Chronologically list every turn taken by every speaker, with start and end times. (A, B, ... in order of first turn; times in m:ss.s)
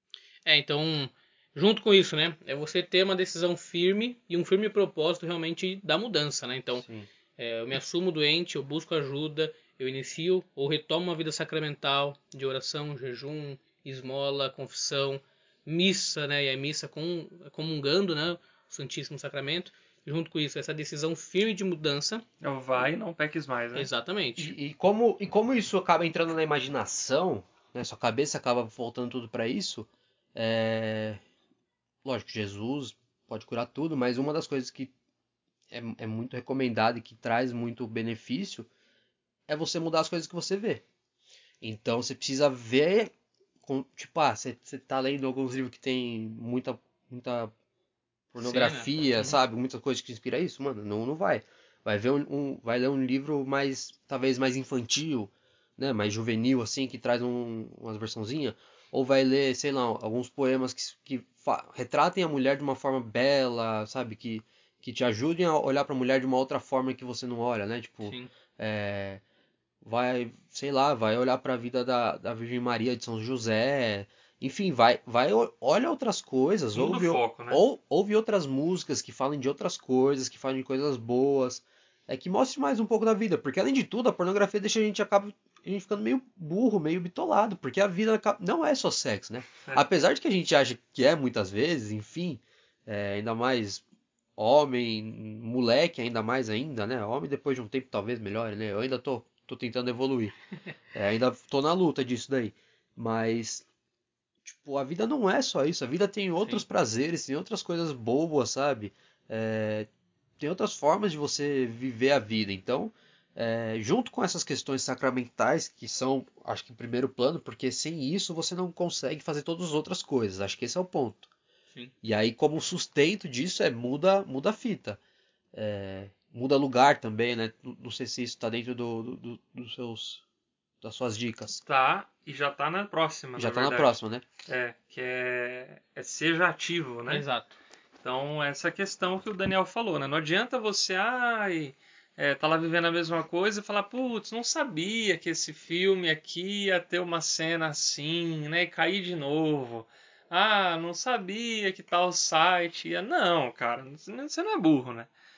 0:00.4-0:06.8 A
0:06.8-0:07.1 B
0:07.4-0:22.2 A
0:22.4-0:23.9 C
0:23.7-0:24.5 A
0:24.4-0:31.2 B
0:32.0-0:34.9 B
0:35.7-0:38.7 B
0:39.5-0:40.8 B
0:41.6-0:43.1 B
0:43.6-0:47.5 B
0:48.3-1:09.2 B
0:48.4-0:49.3 A
1:09.8-1:33.8 B
1:16.7-1:17.6 C
1:34.4-1:40.3 B
1:40.9-1:43.6 B
1:44.4-1:49.9 B
1:50.4-2:01.3 B
2:02.0-2:05.0 B
2:05.5-2:10.2 B
2:10.8-2:11.6 B
2:11.6-2:17.2 C
2:13.4-2:14.2 B
2:17.1-2:17.6 A
2:18.0-2:35.1 C